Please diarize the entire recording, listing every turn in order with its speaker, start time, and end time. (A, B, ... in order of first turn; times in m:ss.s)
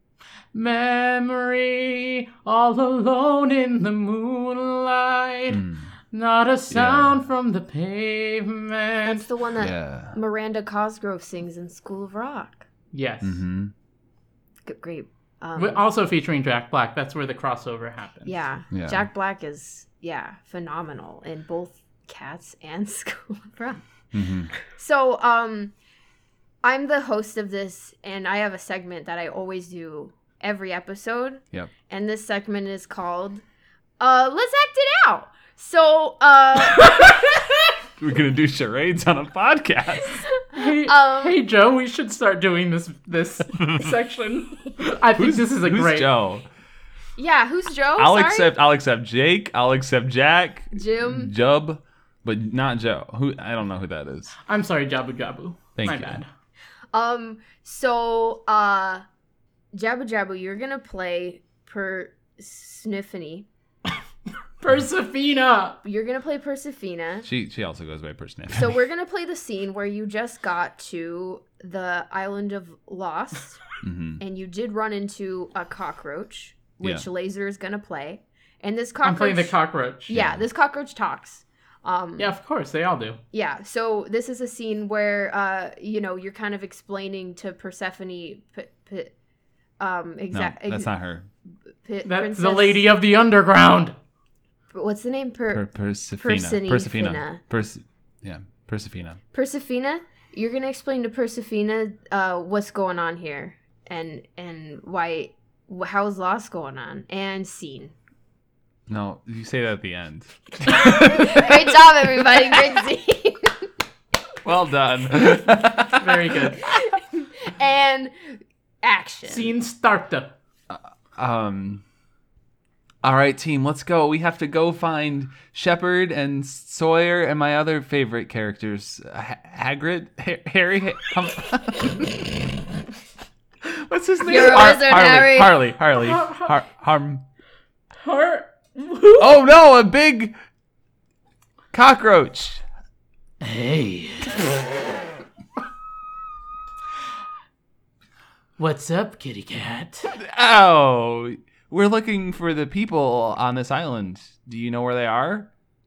0:00.5-0:09.3 A
0:05.5-0:05.9 B
0:06.7-0:07.2 B
0:09.0-0:12.7 C
0:09.6-0:10.1 B
0:12.9-0:13.4 A
0:13.2-0:13.7 B
0:14.6-0:15.8 C
0:15.6-0:18.3 A
0:18.2-0:23.8 C
0:18.7-0:19.0 B
0:24.1-0:24.5 B
0:24.6-0:25.7 C
0:26.6-0:33.4 C
0:34.0-0:37.2 C
0:38.0-0:40.2 B
0:40.1-0:41.4 C
0:40.5-0:46.1 A
0:45.2-0:46.5 B
0:47.2-0:48.5 C
0:48.0-0:54.3 B
0:50.7-0:51.3 C
0:54.4-0:56.3 A
0:55.8-0:56.2 B
0:56.9-0:59.0 C
0:59.7-1:03.4 C
1:04.6-1:05.8 A
1:05.8-1:07.3 C
1:07.3-1:08.7 B
1:08.5-1:13.6 C
1:13.8-1:14.2 B
1:14.2-1:19.6 C
1:19.0-1:20.1 A
1:20.1-1:22.3 C
1:20.1-1:20.4 B
1:22.2-1:23.2 A
1:23.3-1:29.1 C
1:29.8-1:30.9 C
1:30.3-1:31.2 B
1:31.8-1:32.8 C
1:32.0-1:34.0 A
1:34.7-1:37.4 C
1:35.5-1:39.2 B
1:39.3-1:47.9 C
1:48.9-1:51.4 B
1:50.9-1:53.7 C
1:54.4-1:56.0 B
1:55.8-1:56.6 A
1:56.6-1:59.5 C
1:59.2-2:00.3 A
2:00.7-2:01.8 B
2:03.0-2:12.3 B
2:13.6-2:17.2 B
2:14.2-2:15.7 C
2:15.9-2:16.5 A
2:18.0-2:19.4 A
2:19.2-2:20.3 B
2:21.7-2:22.6 B
2:23.4-2:24.4 A
2:28.6-2:30.1 A
2:30.2-2:35.4 B